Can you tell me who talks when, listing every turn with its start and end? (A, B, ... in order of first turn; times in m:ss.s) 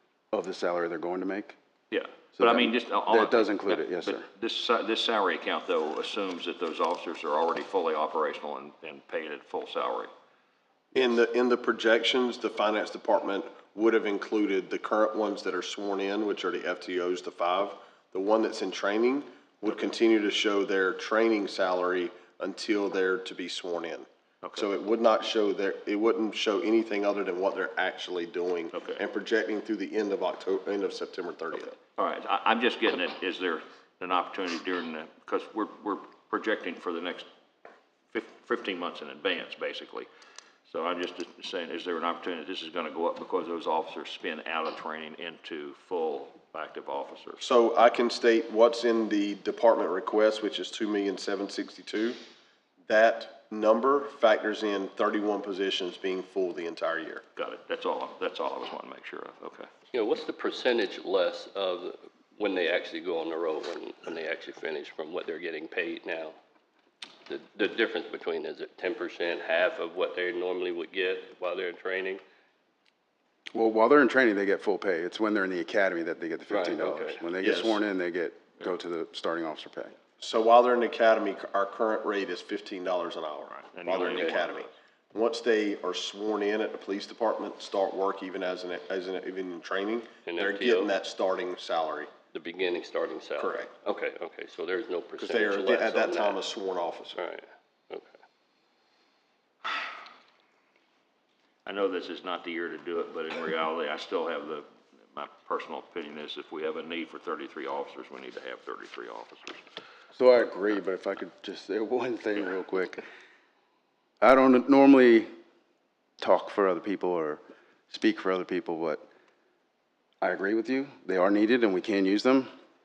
0:00.3-0:01.6 A
0:01.9-0:10.1 B
0:02.4-0:04.3 A
0:10.9-0:31.8 C
0:28.7-0:29.0 B
0:31.9-0:37.2 B
0:38.1-0:40.1 B
0:40.7-0:47.4 B
0:47.4-0:52.2 C
0:52.9-0:57.2 C
0:57.4-0:59.7 B
0:59.9-1:06.4 D
1:07.3-1:12.2 D
1:13.6-1:20.0 A
1:16.5-1:17.2 D
1:17.4-1:17.8 C
1:20.2-1:32.1 C
1:23.5-1:24.7 B
1:24.0-1:24.4 D
1:30.3-1:30.9 D
1:32.3-1:36.4 D
1:33.4-1:33.7 C
1:35.2-1:37.2 C
1:37.2-1:38.1 D
1:41.7-1:49.6 B
1:50.2-1:53.0 A
1:54.2-1:55.3 A
1:56.2-1:59.1 A
2:00.2-2:02.5 A